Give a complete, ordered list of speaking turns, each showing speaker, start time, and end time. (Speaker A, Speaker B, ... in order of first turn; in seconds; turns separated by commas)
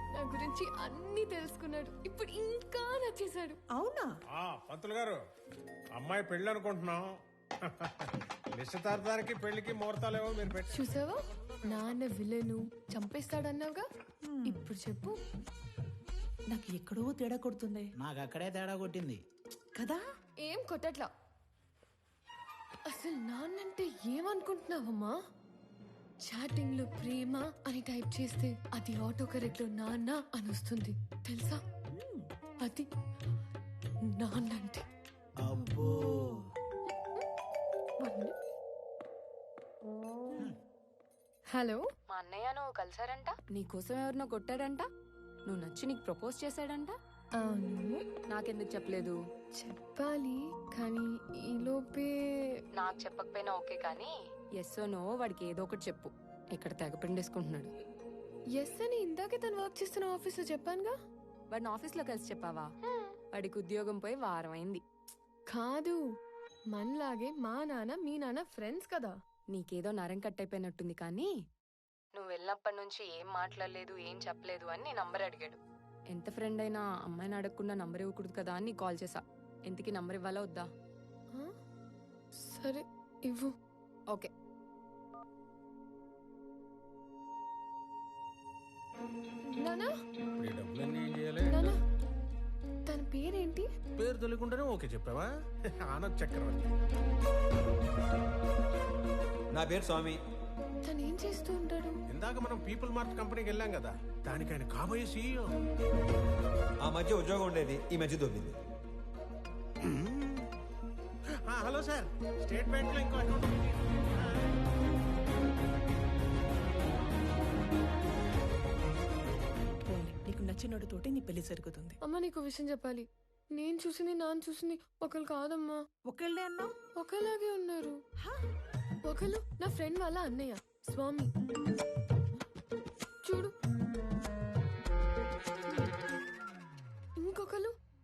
Speaker A: 0.1-3.6, Speaker B: 3.7-4.2, Speaker C: 4.3-5.2, Speaker C: 5.9-7.1, Speaker C: 7.6-12.0, Speaker A: 10.7-13.8, Speaker B: 14.2-14.7, Speaker A: 14.4-15.2, Speaker B: 16.5-17.9, Speaker D: 18.0-19.2, Speaker B: 19.8-20.0, Speaker A: 20.4-21.1, Speaker A: 22.9-25.1, Speaker A: 26.2-31.6, Speaker B: 32.0-32.3, Speaker A: 34.1-34.8, Speaker D: 35.4-36.5, Speaker A: 38.0-38.3, Speaker A: 41.5-41.8, Speaker E: 42.1-44.9, Speaker E: 45.5-47.0, Speaker A: 47.4-48.0, Speaker E: 48.3-49.2, Speaker A: 49.6-52.6, Speaker E: 52.8-57.7, Speaker A: 58.6-61.0, Speaker E: 61.5-62.7, Speaker A: 62.9-63.2, Speaker E: 63.3-64.8, Speaker A: 65.5-66.0, Speaker A: 66.7-69.1, Speaker E: 69.5-71.3, Speaker E: 72.1-75.6, Speaker E: 76.1-80.7, Speaker A: 82.5-83.5, Speaker A: 89.5-89.9, Speaker C: 90.4-91.7, Speaker A: 91.5-91.8, Speaker A: 92.9-93.7, Speaker C: 94.0-95.3, Speaker C: 95.9-96.7, Speaker F: 99.5-100.2, Speaker A: 100.8-102.0, Speaker C: 102.1-105.5, Speaker F: 106.8-108.6, Speaker C: 109.8-110.5, Speaker C: 111.5-114.5, Speaker B: 119.9-122.0, Speaker A: 122.0-125.8, Speaker B: 126.1-126.7, Speaker A: 127.0-128.0, Speaker A: 129.1-131.3, Speaker A: 133.2-133.5, Speaker A: 137.2-137.7